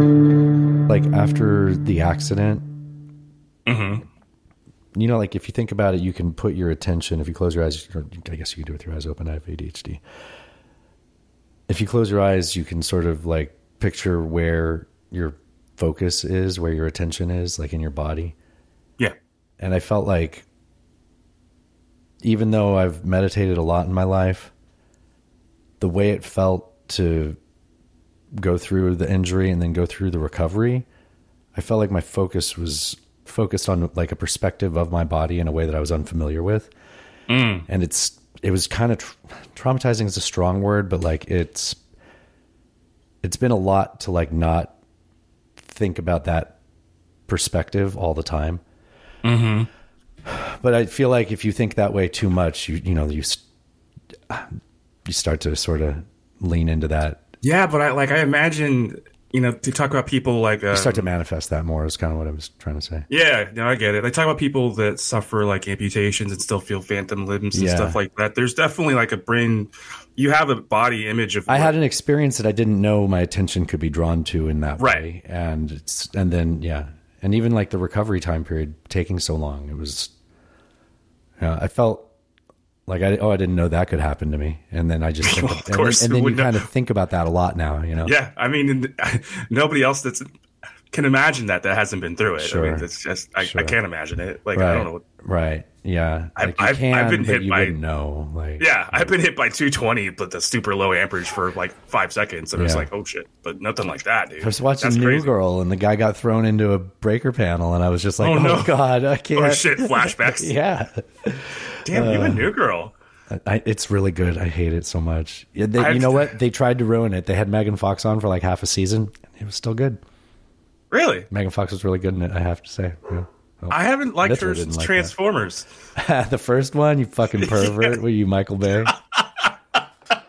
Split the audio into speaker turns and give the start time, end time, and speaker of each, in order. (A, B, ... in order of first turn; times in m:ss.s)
0:00.9-0:02.7 A
0:03.7-0:04.0 B
0:04.9-0:10.0 A
0:11.7-0:18.4 A
0:19.6-0:20.4 A
0:22.2-0:24.5 A
0:25.8-0:27.4 A
0:28.3-0:30.9 A
0:31.6-0:36.7 A
0:37.3-0:37.6 B
0:37.7-0:41.8 A
0:43.2-0:44.7 A
0:45.6-0:46.6 A
0:47.3-0:48.6 A
0:49.2-0:49.7 B
0:50.3-0:53.4 A
0:55.0-0:57.2 A
0:57.4-1:01.1 B
1:00.7-1:03.1 A
1:03.1-1:11.7 B
1:07.5-1:08.0 A
1:11.5-1:20.1 A
1:14.8-1:15.0 B
1:21.4-1:22.1 A
1:22.9-1:28.1 A
1:25.2-1:26.6 B
1:28.0-1:30.3 B
1:30.9-1:35.0 B
1:32.4-1:32.8 A
1:33.4-1:33.8 A
1:34.5-1:39.1 A
1:36.4-1:37.8 B
1:38.6-1:45.3 B
1:42.5-1:42.9 A
1:44.4-1:52.5 A
1:48.2-1:48.8 B
1:49.3-1:50.5 B
1:51.8-1:52.9 B
1:53.3-2:00.0 A
1:55.8-1:56.4 B
2:00.9-2:01.3 B
2:01.3-2:05.1 A
2:03.7-2:05.7 B
2:06.0-2:08.9 A
2:07.4-2:08.0 B